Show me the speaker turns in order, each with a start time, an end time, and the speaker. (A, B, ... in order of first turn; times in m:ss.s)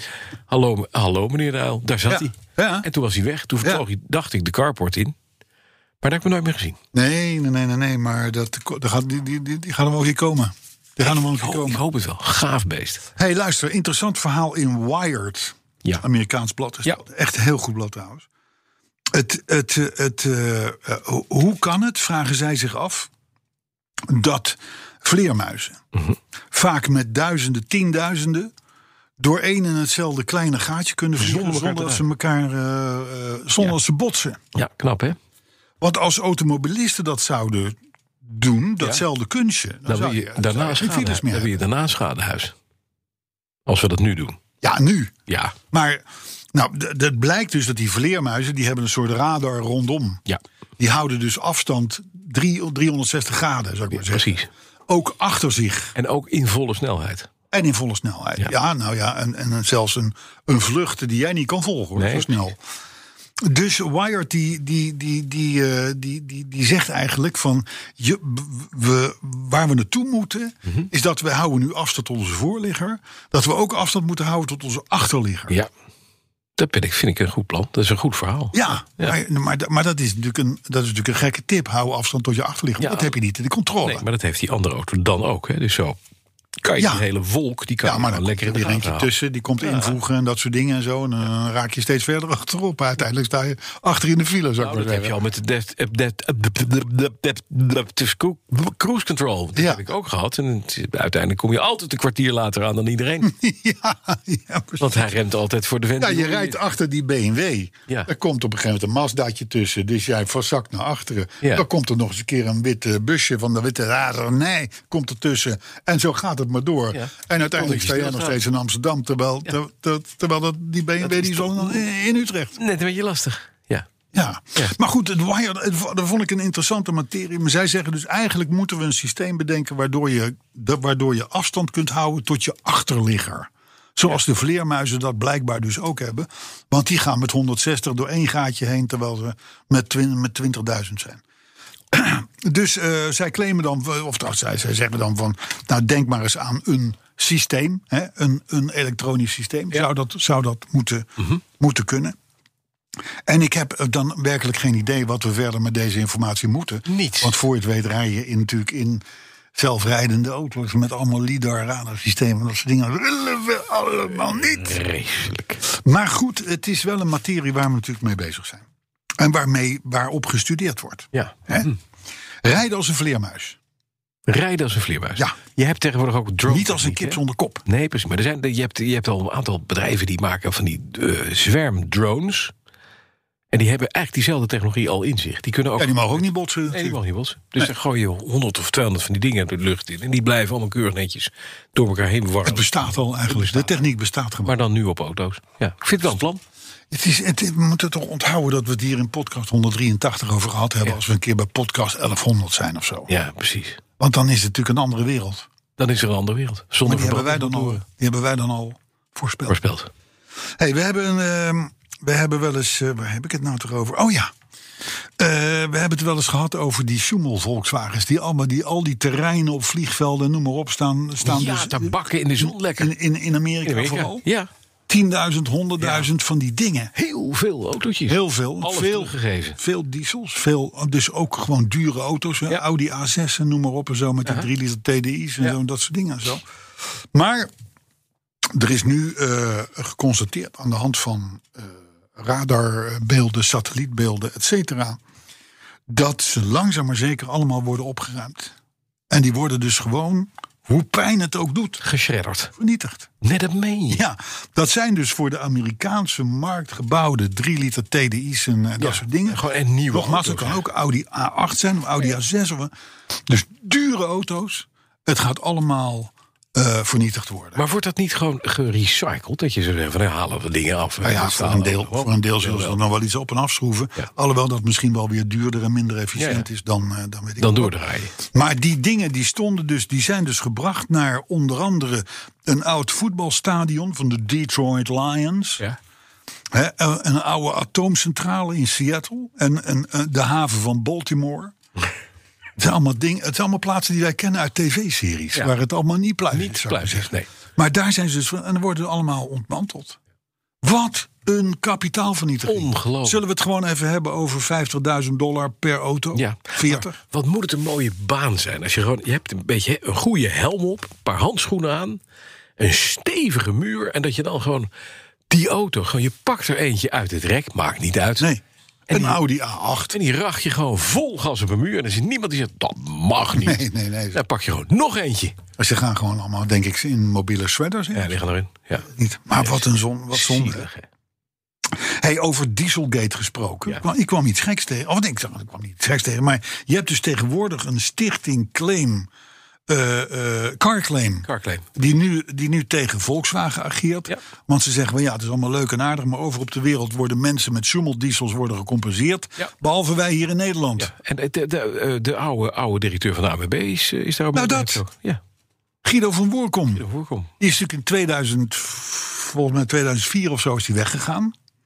0:00.5-0:05.2 A
0:02.1-0:02.9 B
0:06.0-0:06.8 A
0:06.9-0:11.8 B
0:11.0-0:13.0 A
0:13.2-0:18.3 B
0:19.1-0:23.1 B
0:24.1-0:25.8 B
0:26.5-0:28.5 B
0:29.2-0:34.4 B
0:31.2-0:32.0 A
0:34.5-0:35.2 A
0:35.8-0:41.6 B
0:39.9-0:42.5 A
0:43.7-0:44.4 A
0:44.6-0:45.1 B
0:45.3-0:45.6 A
0:45.7-0:50.2 B
0:50.8-0:54.4 B
0:54.0-0:54.5 A
0:54.9-0:56.0 B
0:56.0-0:57.3 A
0:57.5-1:02.6 B
1:02.0-1:02.3 A
1:03.4-1:15.6 B
1:16.6-1:19.2 A
1:18.5-1:24.0 B
1:22.8-1:23.1 A
1:23.8-1:26.0 A
1:26.6-1:29.1 A
1:27.8-1:35.2 B
1:29.6-1:30.0 A
1:34.6-1:43.3 A
1:39.6-1:39.8 B
1:43.2-1:45.1 B
1:44.8-1:46.6 A
1:46.0-2:02.6 B
1:56.9-1:58.4 A
2:01.0-2:01.8 A
2:02.6-2:03.9 A
2:04.1-2:21.2 B
2:21.9-2:32.2 B
2:33.3-2:39.0 B
2:36.9-2:37.4 A
2:39.6-2:44.8 B
2:44.4-2:45.6 A
2:45.7-2:48.7 B
2:49.2-2:51.7 B
2:51.1-2:51.8 A
2:52.4-2:53.6 B
2:54.3-3:02.5 A
2:56.5-2:57.6 B
3:03.5-3:13.8 A
3:05.8-3:07.0 B
3:12.4-3:14.5 B
3:14.4-3:16.4 A
3:16.9-3:23.1 B
3:23.1-3:23.8 A
3:24.0-3:25.5 B
3:25.8-3:27.8 A
3:26.8-3:29.6 B
3:29.5-3:29.9 A
3:30.6-3:34.3 B
3:35.2-3:44.2 B
3:41.2-3:42.9 A
3:43.6-3:44.5 A
3:44.9-3:46.9 B
3:45.8-3:46.1 A
3:47.0-3:49.6 A
3:48.1-3:56.4 B
3:57.1-3:57.5 B
3:58.5-4:05.0 B
4:05.9-4:08.5 B
4:09.1-4:11.8 B
4:11.8-4:12.5 A
4:12.5-4:13.1 B
4:13.2-4:14.0 A
4:13.9-4:22.7 B
4:18.8-4:20.6 A
4:23.3-4:27.6 B
4:27.6-4:32.8 A
4:31.0-4:37.7 B
4:36.2-4:36.5 A
4:37.4-4:38.2 A
4:38.3-4:45.6 B
4:46.5-4:51.5 B
4:52.6-5:00.0 B
4:56.3-4:57.3 A
5:00.6-5:07.0 B
5:02.5-5:03.2 A
5:06.1-5:12.0 A
5:12.6-5:14.7 A
5:15.3-5:18.3 A
5:18.2-5:20.0 B
5:18.9-5:19.2 A
5:19.9-5:25.4 A
5:23.3-5:24.2 B
5:25.6-5:28.2 B
5:27.9-5:28.9 A
5:28.9-5:30.7 B
5:29.4-5:30.9 A
5:31.7-5:39.1 B
5:39.7-5:50.9 B
5:41.3-5:41.7 A
5:50.8-5:55.2 A
5:54.3-5:54.8 B
5:55.8-5:56.8 B
5:56.8-5:57.3 A
5:57.4-6:01.3 B